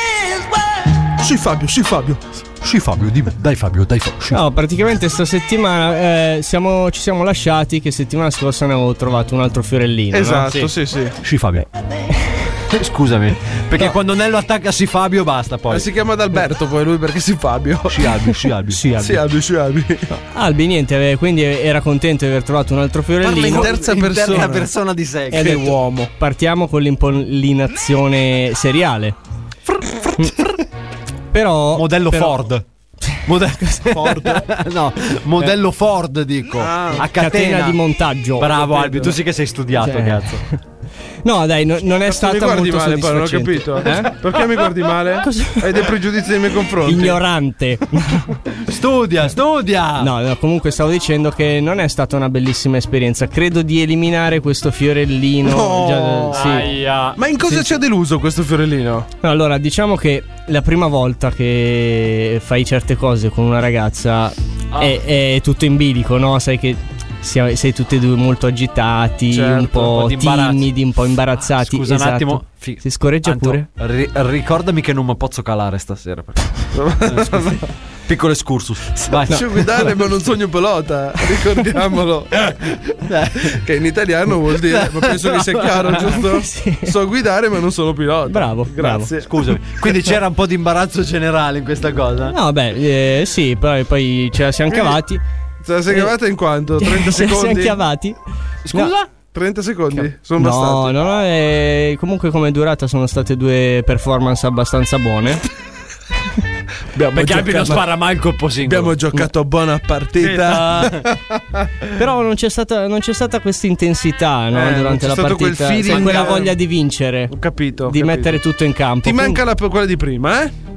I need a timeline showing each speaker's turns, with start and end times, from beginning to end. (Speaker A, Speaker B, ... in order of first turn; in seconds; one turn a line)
Speaker A: 1.2-2.2
Speaker B: 2.6-4.4
Speaker C: 4.3-10.7
Speaker A: 10.1-11.2
Speaker B: 11.2-11.7
Speaker B: 12.7-15.9
Speaker A: 15.7-18.1
Speaker B: 17.9-19.2
Speaker C: 18.7-19.0
Speaker A: 19.0-20.1
Speaker C: 20.1-23.8
Speaker B: 23.2-25.6
Speaker A: 23.3-24.7
Speaker A: 25.3-26.1
Speaker C: 25.3-29.2
Speaker C: 30.2-30.4
Speaker C: 31.3-32.5
Speaker B: 31.7-32.6
Speaker B: 33.2-37.8
Speaker C: 33.6-34.4
Speaker A: 36.6-37.1
Speaker C: 37.0-38.7
Speaker B: 38.4-40.4
Speaker A: 38.5-39.1
Speaker C: 39.8-40.6
Speaker C: 41.2-44.2
Speaker A: 42.0-47.2
Speaker C: 45.2-45.9
Speaker C: 46.8-48.3
Speaker B: 48.7-50.1
Speaker C: 50.0-56.7
Speaker A: 55.4-59.1
Speaker B: 56.3-57.2
Speaker C: 57.5-57.7
Speaker C: 59.2-73.7
Speaker A: 69.3-70.0
Speaker B: 69.8-70.7
Speaker B: 71.5-79.5
Speaker A: 76.7-77.6
Speaker C: 79.3-79.7
Speaker A: 79.3-82.6
Speaker B: 83.1-83.6
Speaker A: 83.5-89.9
Speaker B: 84.7-86.2
Speaker C: 86.1-86.9
Speaker C: 88.3-89.1
Speaker B: 89.2-92.4
Speaker C: 92.3-95.2
Speaker A: 94.7-95.0
Speaker A: 95.6-97.8
Speaker C: 95.9-96.2
Speaker C: 96.8-98.2
Speaker B: 98.6-99.0
Speaker A: 99.3-101.0
Speaker C: 99.9-105.4
Speaker A: 107.0-107.9
Speaker B: 107.1-109.0
Speaker A: 108.6-111.7
Speaker B: 110.2-111.1
Speaker C: 112.0-119.4
Speaker A: 114.5-116.6
Speaker B: 115.9-116.4
Speaker A: 117.3-118.4
Speaker A: 119.0-120.5